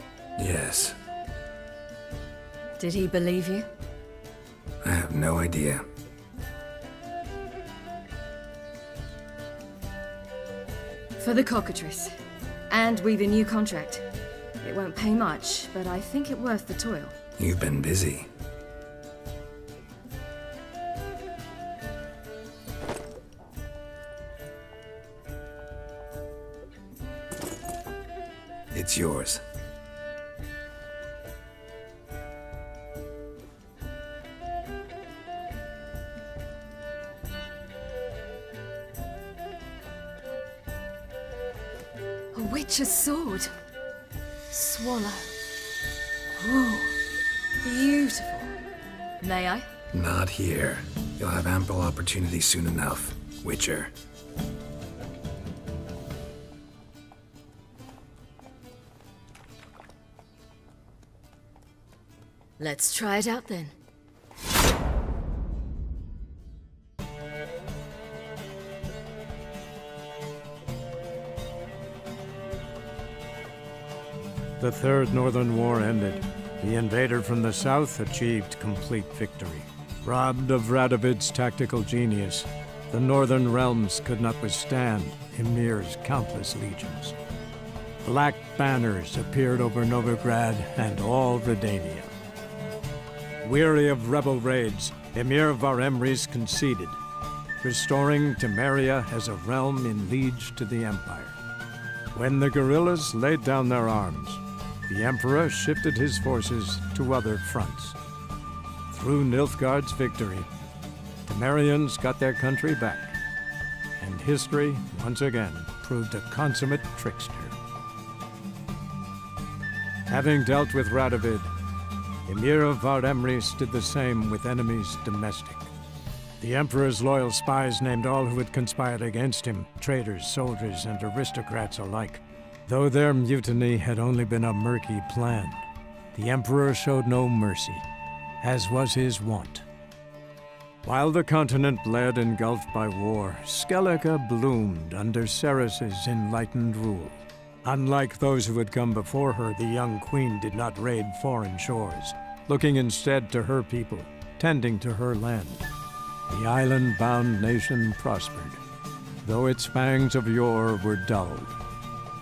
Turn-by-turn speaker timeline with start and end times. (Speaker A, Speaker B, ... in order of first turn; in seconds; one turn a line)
Speaker A: 0.4-0.9
Speaker B: 2.8-3.7
Speaker A: 4.8-5.8
Speaker B: 11.2-12.2
Speaker B: 12.7-14.0
Speaker B: 14.6-17.1
Speaker A: 17.4-18.3
Speaker A: 28.7-29.4
Speaker B: 42.3-43.5
Speaker B: 44.5-45.3
Speaker B: 46.4-47.0
Speaker B: 47.6-48.5
Speaker B: 49.2-49.7
Speaker A: 49.9-53.9
Speaker B: 62.6-63.8
Speaker C: 74.6-87.2
Speaker C: 88.0-92.1
Speaker C: 93.4-97.0
Speaker C: 97.6-101.4
Speaker C: 102.1-108.0
Speaker C: 108.9-110.5
Speaker C: 111.2-113.2
Speaker C: 114.0-117.5
Speaker C: 120.1-121.5
Speaker C: 122.2-125.7
Speaker C: 126.4-137.8
Speaker C: 138.4-139.7
Speaker C: 140.8-155.7
Speaker C: 156.3-158.6
Speaker C: 159.2-161.6